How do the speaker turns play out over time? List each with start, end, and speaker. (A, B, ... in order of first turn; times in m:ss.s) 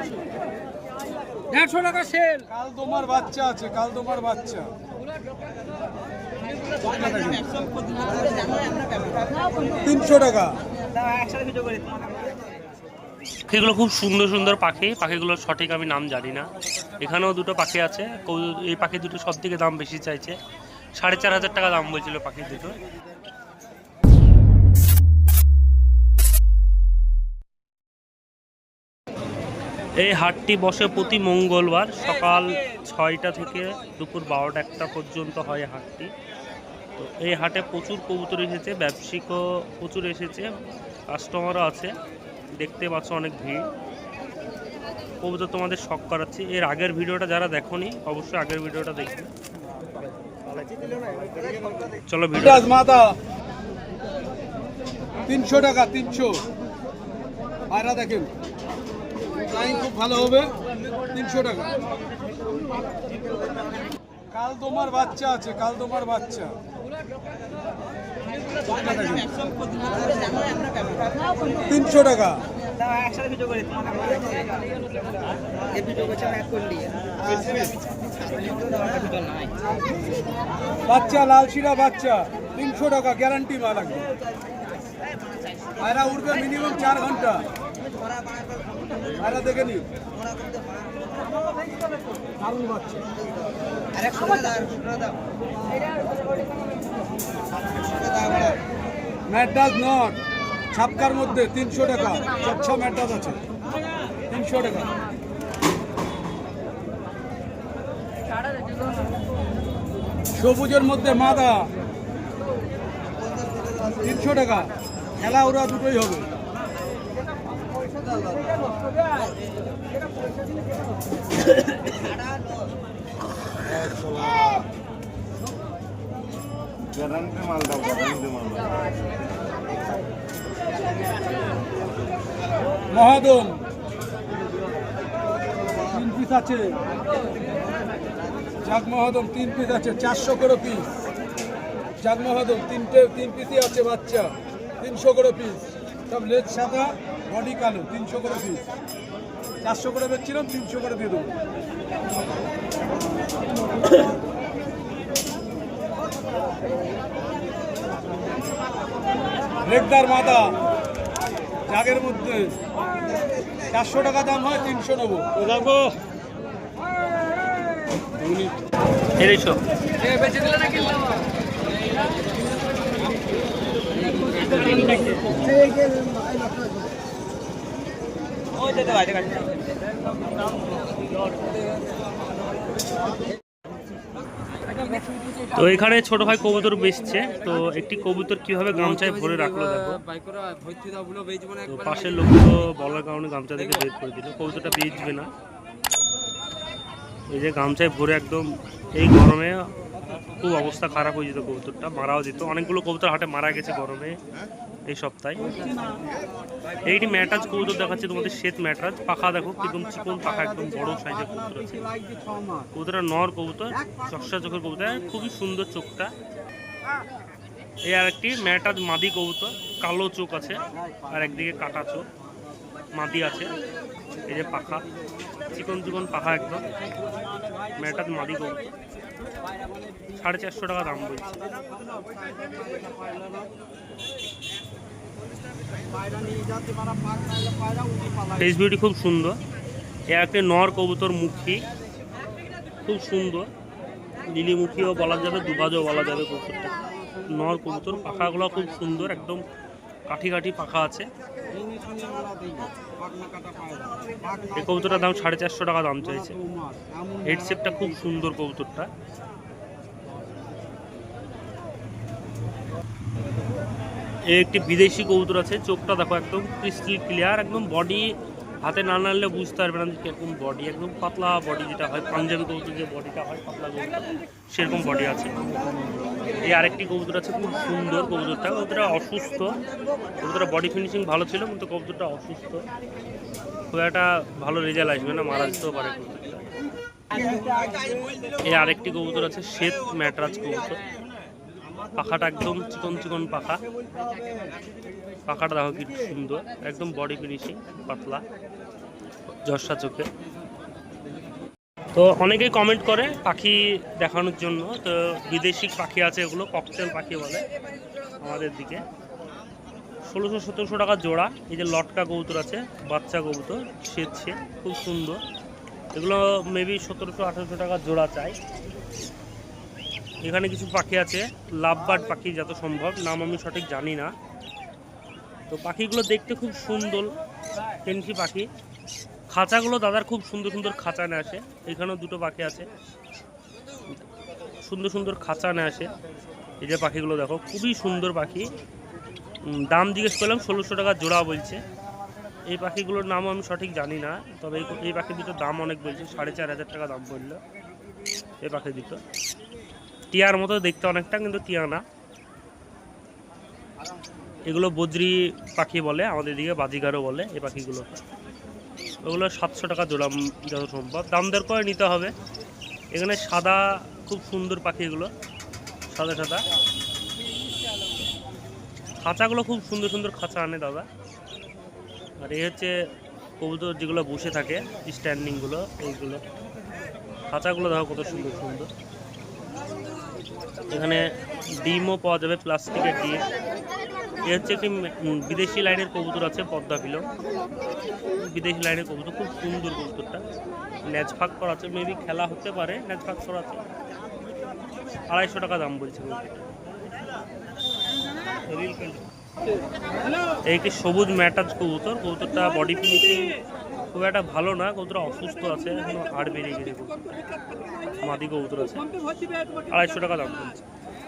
0:01.6-0:02.2 A
0:02.3-0:04.7 B
0:06.8-0:07.6 B
0:07.6-0:09.4 A
0:09.7-0:10.6 B
0:11.0-0:12.1 A
0:13.5-0:20.4 C
0:21.0-0:22.8 C
0:30.0-0:36.1 C
0:37.0-0:40.6 C
0:41.1-0:41.9 C
0:42.6-0:43.7 C
0:45.2-0:49.3 C
0:52.1-0:52.7 C
0:52.4-0:53.2 B
0:55.2-0:56.4 B
0:57.7-0:58.3 B
0:59.4-1:00.6 B
1:01.1-1:01.7 B
1:04.3-1:06.6 B
1:08.7-1:09.4 B
1:09.8-1:11.0 A
1:11.6-1:12.4 B
1:12.8-1:14.5 A
1:15.8-1:16.9 A
1:20.8-1:24.1 B
1:25.8-1:27.4 B
1:29.1-1:29.8 B
1:32.4-1:33.0 B
1:34.1-1:34.8 A
1:39.3-1:40.2 B
1:40.7-1:43.4 B
1:44.3-1:44.9 B
1:50.3-1:51.7 B
1:53.9-1:56.3 B
2:12.9-2:13.6 B
2:15.8-2:16.8 B
2:18.6-2:20.9 B
2:22.0-2:28.6 B
2:29.6-2:31.4 B
2:39.6-2:40.6 B
2:41.7-2:42.5 B
2:43.7-2:45.6 B
2:49.2-2:49.6 C
2:59.0-2:59.3 A
3:05.5-3:10.0 C
3:10.4-3:11.4 A
3:11.6-3:15.3 C
3:17.3-3:19.7 C
3:20.3-3:24.2 C
3:24.9-3:25.7 C
3:26.8-3:32.0 C
3:32.7-3:36.1 C
3:37.9-3:42.0 C
3:43.0-3:43.5 C
3:44.3-3:44.8 C
3:45.5-3:46.6 C
3:47.8-3:48.7 C
3:50.1-3:51.4 C
3:51.5-3:53.4 A
3:56.2-3:58.1 A
3:58.3-3:59.4 C
4:00.1-4:01.6 C
4:02.8-4:03.5 C
4:04.3-4:09.4 C
4:10.1-4:11.1 C
4:11.5-4:13.9 A
4:14.5-4:16.4 C
4:17.2-4:18.9 C
4:24.3-4:35.5 C
4:36.4-4:39.5 C
4:40.2-4:42.6 C
4:43.7-4:46.5 C
4:48.4-4:50.8 C
4:51.9-4:53.6 C
4:55.3-4:58.2 C
4:59.4-5:00.1 C
5:01.9-5:07.5 C
5:08.2-5:08.8 C
5:10.1-5:15.2 C
5:15.9-5:18.4 C
5:20.2-5:24.1 C
5:25.5-5:27.1 C
5:27.8-5:28.5 C
5:29.3-5:32.7 C
5:34.6-5:35.9 C
5:36.6-5:38.5 C
5:39.4-5:41.6 C
5:42.5-5:47.4 C
5:48.4-5:49.0 C
5:50.1-5:51.8 C
5:54.5-5:58.0 C
5:59.0-6:02.1 C
6:02.9-6:05.1 C
6:05.9-6:06.4 C
6:09.0-6:10.9 C
6:12.2-6:12.7 C
6:13.4-6:16.2 C
6:17.3-6:18.7 C
6:20.7-6:23.2 C
6:24.2-6:27.1 C
6:28.1-6:30.2 C
6:30.8-6:33.6 C
6:35.1-6:36.4 C
6:38.5-6:39.0 C
6:40.4-6:43.3 C
6:43.9-6:47.0 C
6:47.9-6:48.8 C
6:49.7-6:50.6 C